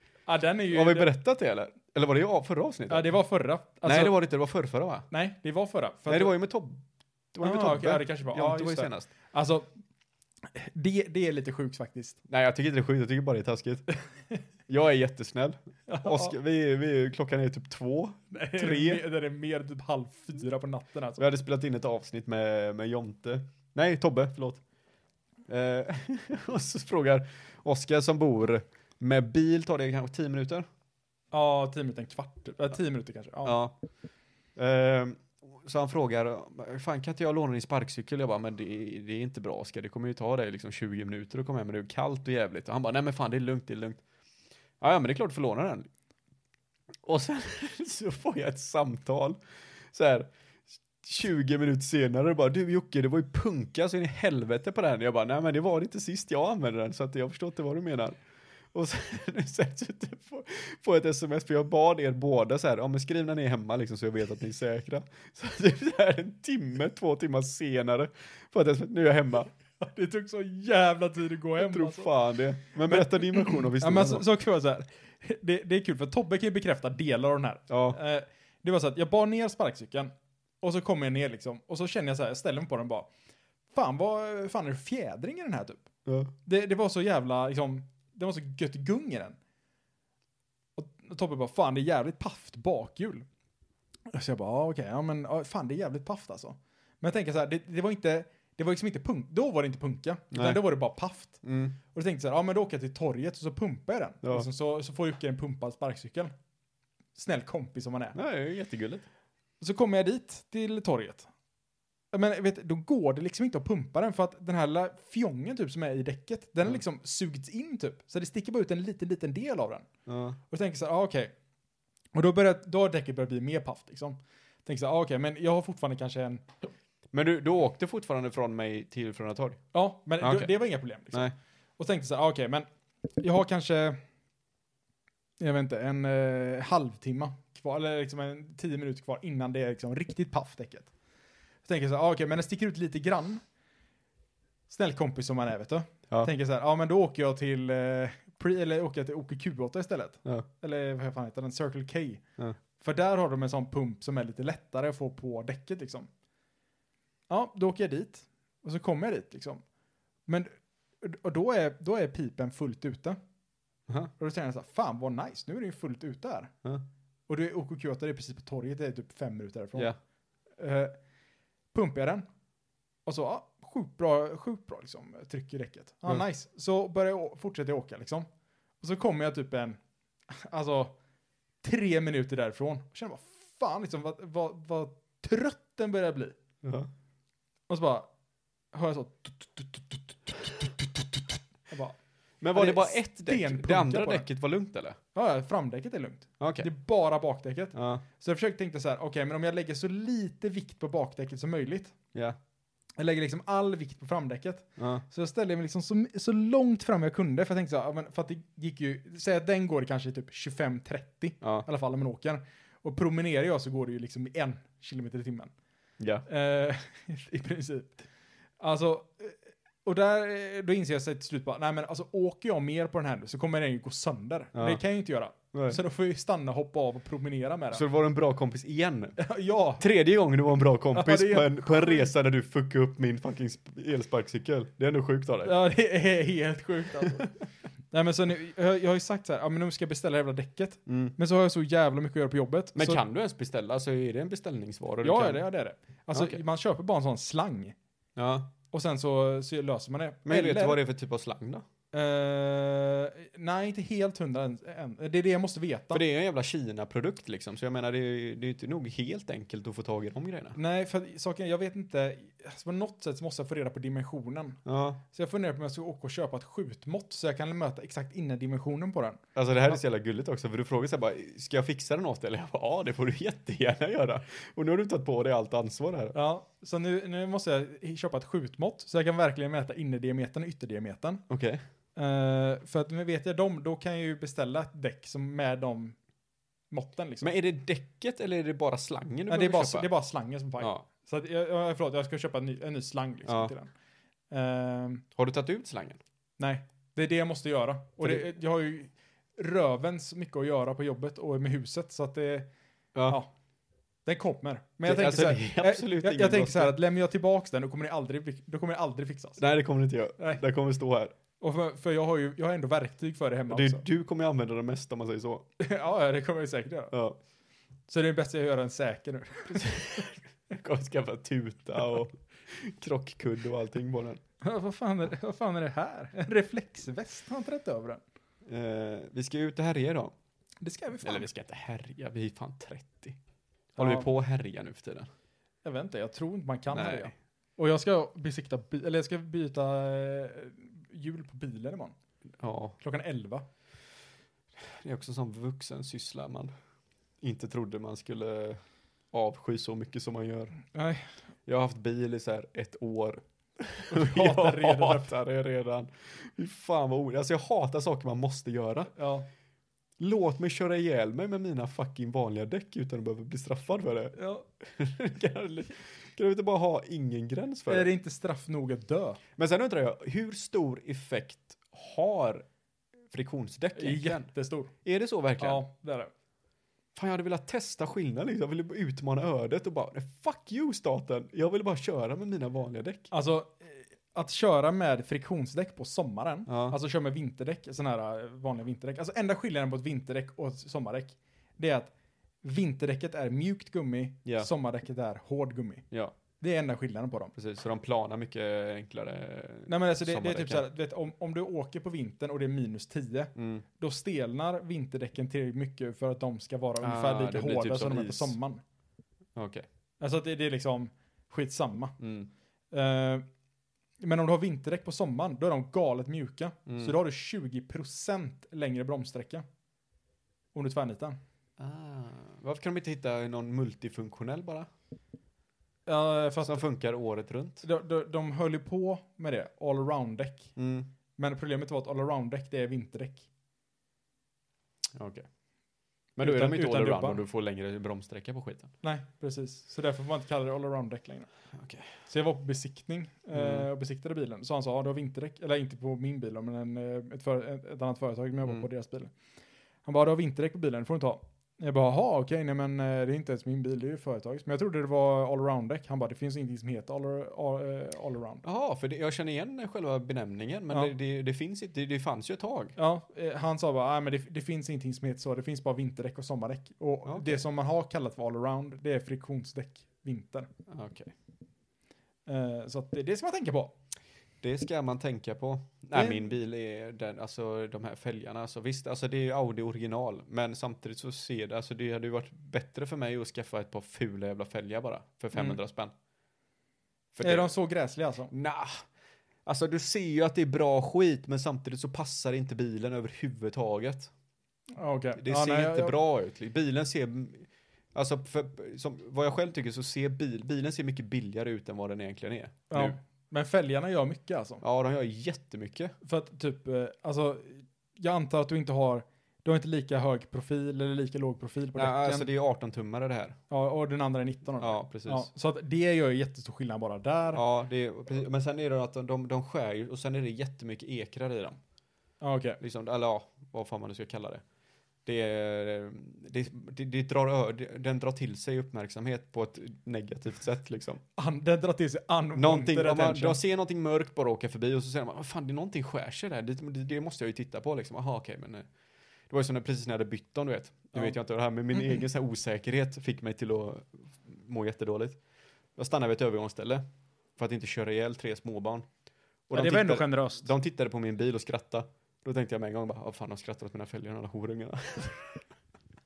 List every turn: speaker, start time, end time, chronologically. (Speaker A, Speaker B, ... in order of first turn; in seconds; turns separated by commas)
Speaker A: 0.3-1.1, Speaker B: 0.7-3.1, Speaker A: 2.9-4.1, Speaker B: 3.8-5.0, Speaker A: 5.1-6.3, Speaker B: 6.1-9.1, Speaker A: 7.4-9.7, Speaker A: 10.5-12.2, Speaker B: 12.3-13.8, Speaker B: 14.7-19.0, Speaker A: 15.9-16.3, Speaker A: 18.3-21.2, Speaker B: 21.2-24.6, Speaker B: 25.5-30.6, Speaker A: 31.3-33.6, Speaker B: 33.4-33.8, Speaker B: 34.5-44.0, Speaker B: 44.8-45.9, Speaker B: 47.0-49.4, Speaker B: 49.9-50.3, Speaker B: 51.0-58.2, Speaker B: 58.7-69.5, Speaker A: 69.8-72.1, Speaker B: 71.6-74.2, Speaker A: 72.8-83.1, Speaker B: 77.7-78.0, Speaker A: 83.7-85.8, Speaker B: 86.0-86.3, Speaker A: 86.4-89.4, Speaker A: 90.8-93.2, Speaker A: 94.1-106.3, Speaker B: 100.3-100.6, Speaker B: 101.4-101.8, Speaker A: 107.1-108.2, Speaker B: 108.1-109.0, Speaker A: 109.6-111.3, Speaker A: 112.1-119.9, Speaker B: 120.1-120.4, Speaker A: 120.5-121.3, Speaker A: 122.1-126.5, Speaker B: 127.1-129.6, Speaker A: 129.7-132.7, Speaker B: 130.2-130.5, Speaker A: 133.2-134.0, Speaker A: 135.4-140.9, Speaker A: 141.6-143.4, Speaker A: 144.7-152.2, Speaker A: 152.8-156.1, Speaker A: 157.3-159.6, Speaker A: 161.0-163.2, Speaker A: 164.2-166.5, Speaker A: 167.3-169.9, Speaker A: 170.6-170.9, Speaker A: 171.7-172.2, Speaker A: 173.1-178.3, Speaker A: 178.8-179.8, Speaker A: 180.3-180.9, Speaker A: 181.6-186.3, Speaker B: 186.6-186.9, Speaker A: 187.7-188.1, Speaker A: 188.7-192.0, Speaker B: 192.4-195.0, Speaker A: 192.5-194.2, Speaker A: 195.1-201.9, Speaker B: 196.4-196.7, Speaker B: 197.7-198.0, Speaker A: 203.0-215.5, Speaker B: 204.8-205.0, Speaker B: 216.0-216.2, Speaker A: 216.2-218.1, Speaker A: 218.6-227.8, Speaker B: 224.5-224.8, Speaker B: 225.5-225.8, Speaker B: 227.7-229.2, Speaker A: 229.2-229.8, Speaker B: 229.8-235.5, Speaker A: 230.9-232.1, Speaker A: 235.4-237.3, Speaker A: 237.9-243.0, Speaker B: 240.9-241.1, Speaker B: 242.7-245.4, Speaker A: 245.0-247.7, Speaker B: 246.1-246.4, Speaker B: 248.2-248.5, Speaker A: 248.7-250.8, Speaker B: 250.2-251.6, Speaker A: 251.9-256.0, Speaker B: 255.9-260.6, Speaker A: 260.5-264.6, Speaker B: 264.6-265.0, Speaker A: 265.1-269.8, Speaker B: 269.3-276.1, Speaker A: 276.1-281.2, Speaker B: 281.3-281.6, Speaker A: 281.9-286.0, Speaker A: 286.7-287.3, Speaker B: 287.2-289.9, Speaker A: 289.3-293.7, Speaker B: 290.6-290.8, Speaker B: 293.2-293.5, Speaker A: 294.3-295.0, Speaker B: 295.1-296.0, Speaker A: 296.4-302.5, Speaker B: 298.0-298.2, Speaker B: 302.9-303.2, Speaker A: 304.1-309.4, Speaker B: 304.8-306.7, Speaker B: 309.4-311.1, Speaker A: 311.4-313.8, Speaker B: 313.5-315.5, Speaker A: 315.6-316.9, Speaker B: 316.9-317.2, Speaker A: 317.9-320.1, Speaker B: 319.6-324.2, Speaker A: 324.4-328.0, Speaker B: 328.4-330.1, Speaker A: 330.6-331.3, Speaker B: 331.0-333.2, Speaker A: 333.8-334.1, Speaker B: 333.8-335.1, Speaker A: 335.6-341.9, Speaker B: 336.7-337.1, Speaker B: 342.4-342.8, Speaker A: 342.8-343.4, Speaker B: 344.6-346.5, Speaker B: 347.2-348.6, Speaker B: 349.1-350.5, Speaker A: 350.7-351.1, Speaker B: 351.4-358.9, Speaker A: 353.9-355.1, Speaker A: 358.9-359.3, Speaker B: 360.0-367.9, Speaker A: 364.1-364.4, Speaker A: 367.7-369.2, Speaker B: 369.4-372.4, Speaker B: 373.1-374.3, Speaker A: 373.8-374.7, Speaker B: 374.8-375.6, Speaker A: 375.4-376.1, Speaker B: 376.9-383.1, Speaker A: 383.1-391.9, Speaker B: 386.5-386.8, Speaker A: 392.4-395.8, Speaker A: 396.4-397.3, Speaker B: 397.4-400.7, Speaker A: 399.7-408.6, Speaker B: 403.4-403.6, Speaker B: 406.8-408.3, Speaker B: 409.3-409.6, Speaker A: 410.0-411.9, Speaker B: 412.0-412.3, Speaker A: 412.7-413.2, Speaker A: 414.0-419.4, Speaker B: 416.7-416.9, Speaker A: 420.5-421.2, Speaker B: 421.6-424.7, Speaker A: 425.9-426.6, Speaker B: 426.4-427.6, Speaker A: 427.6-430.6, Speaker B: 430.6-430.9, Speaker A: 431.2-433.3, Speaker B: 434.9-435.2, Speaker B: 436.2-438.7, Speaker A: 436.2-437.2, Speaker A: 438.8-441.3, Speaker B: 441.5-441.9, Speaker A: 442.1-449.1, Speaker B: 443.3-443.7, Speaker A: 449.8-458.4, Speaker B: 458.4-462.7, Speaker A: 462.8-470.5, Speaker B: 467.1-467.4, Speaker B: 470.7-471.1, Speaker A: 472.3-473.7, Speaker B: 474.4-485.9, Speaker A: 475.9-476.3, Speaker A: 485.3-485.6, Speaker B: 487.1-487.5, Speaker A: 487.2-488.3, Speaker B: 488.3-488.8, Speaker B: 489.4-494.1, Speaker A: 494.8-496.0, Speaker B: 495.2-503.0, Speaker A: 502.7-504.6, Speaker B: 504.6-505.9, Speaker A: 506.0-512.3, Speaker B: 511.8-513.4, Speaker A: 513.5-517.4, Speaker B: 514.6-515.3, Speaker B: 517.3-521.6, Speaker A: 522.2-522.6, Speaker B: 522.6-524.4, Speaker B: 525.0-531.0, Speaker A: 531.1-533.4, Speaker B: 532.4-538.7, Speaker B: 539.3-545.2, Speaker B: 545.8-546.8, Speaker B: 547.4-548.9, Speaker B: 549.5-555.4, Speaker A: 549.5-550.5